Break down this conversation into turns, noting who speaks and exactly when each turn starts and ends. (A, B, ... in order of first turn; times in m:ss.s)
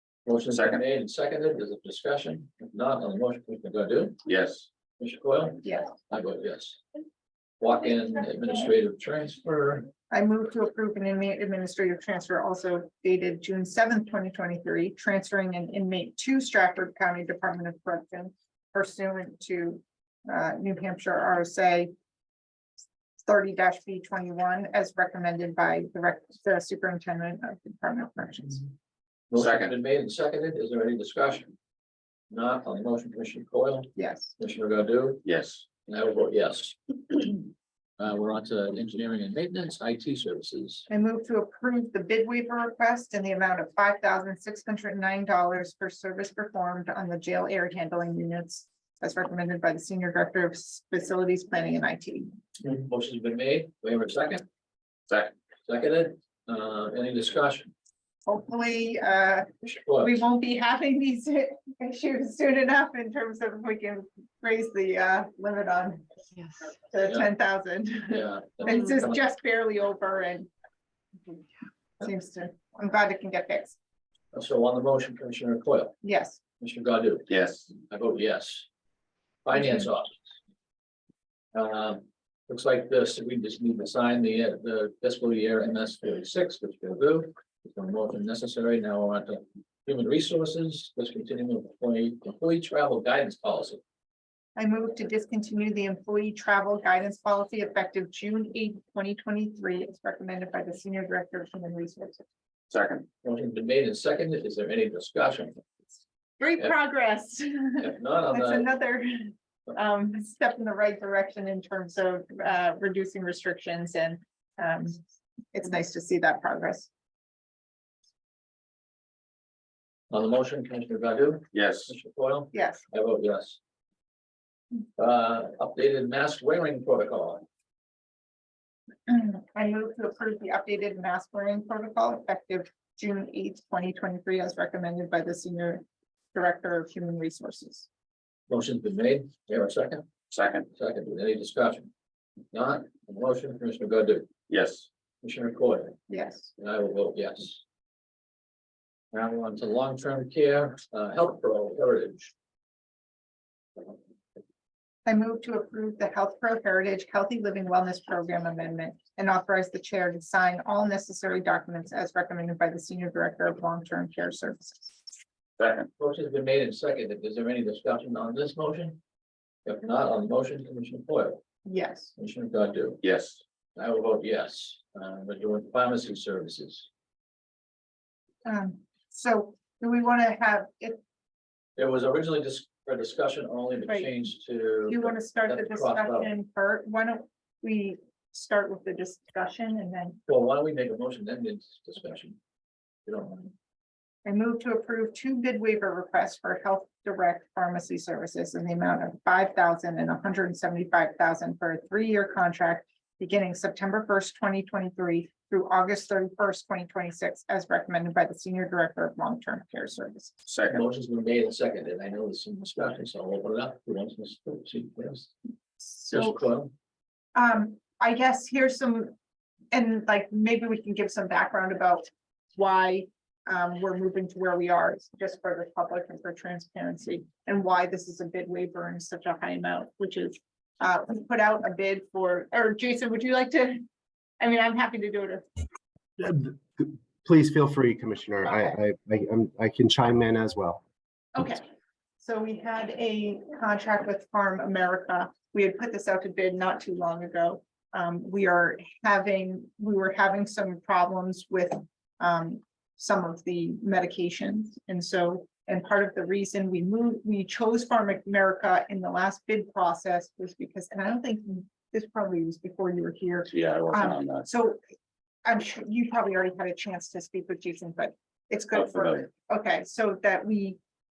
0:00.2-0:04.2 A
0:00.5-0:00.8 B
0:04.2-0:04.7 B
0:05.0-0:06.8 A
0:05.6-0:05.9 C
0:07.6-0:09.9 A
0:10.1-0:21.9 C
0:23.2-0:28.6 C
0:29.3-0:31.5 A
0:29.3-0:29.7 B
0:32.3-0:35.2 A
0:34.0-0:34.3 C
0:35.2-0:35.6 B
0:35.8-0:40.8 A
0:40.9-0:52.3 C
0:52.6-0:54.4 A
0:55.6-0:57.7 A
0:58.2-1:06.2 C
0:59.7-1:00.1 A
1:06.8-1:10.5 C
1:08.1-1:09.2 A
1:12.0-1:13.8 C
1:14.3-1:15.9 A
1:16.0-1:16.4 C
1:16.6-1:17.3 A
1:17.3-1:17.7 B
1:17.8-1:18.7 A
1:19.4-1:20.2 A
1:21.5-1:33.8 A
1:34.6-1:42.2 C
1:42.7-1:43.0 B
1:43.2-1:45.7 A
1:46.4-1:55.0 C
1:47.8-1:48.7 A
1:55.5-1:56.9 C
2:00.1-2:03.6 A
2:01.5-2:01.9 B
2:02.5-2:02.8 C
2:05.0-2:07.4 A
2:09.1-2:17.9 C
2:18.5-2:20.1 A
2:20.3-2:20.7 B
2:20.7-2:21.9 A
2:22.5-2:24.3 A
2:24.5-2:24.9 B
2:25.2-2:26.0 A
2:26.1-2:26.5 C
2:26.6-2:27.6 A
2:29.1-2:32.3 A
2:35.0-2:45.0 C
2:45.6-2:45.9 B
2:46.0-2:49.0 A
2:49.6-2:51.4 A
2:51.6-2:52.1 C
2:52.2-2:53.0 A
2:53.0-2:53.4 B
2:53.8-2:56.9 A
2:58.4-3:01.0 C
3:01.8-3:06.3 A
3:04.9-3:10.2 C
3:10.3-3:12.4 A
3:13.0-3:13.5 A
3:14.2-3:30.4 C
3:30.5-3:30.8 B
3:30.6-3:35.3 A
3:35.9-3:36.4 C
3:36.1-3:36.7 A
3:37.3-3:39.1 C
3:39.7-3:53.8 C
3:54.4-3:55.4 C
3:56.2-4:00.8 D
4:01.3-4:01.6 C
4:02.2-4:24.8 C
4:23.5-4:24.4 B
4:25.4-4:30.8 C
4:28.7-4:29.3 B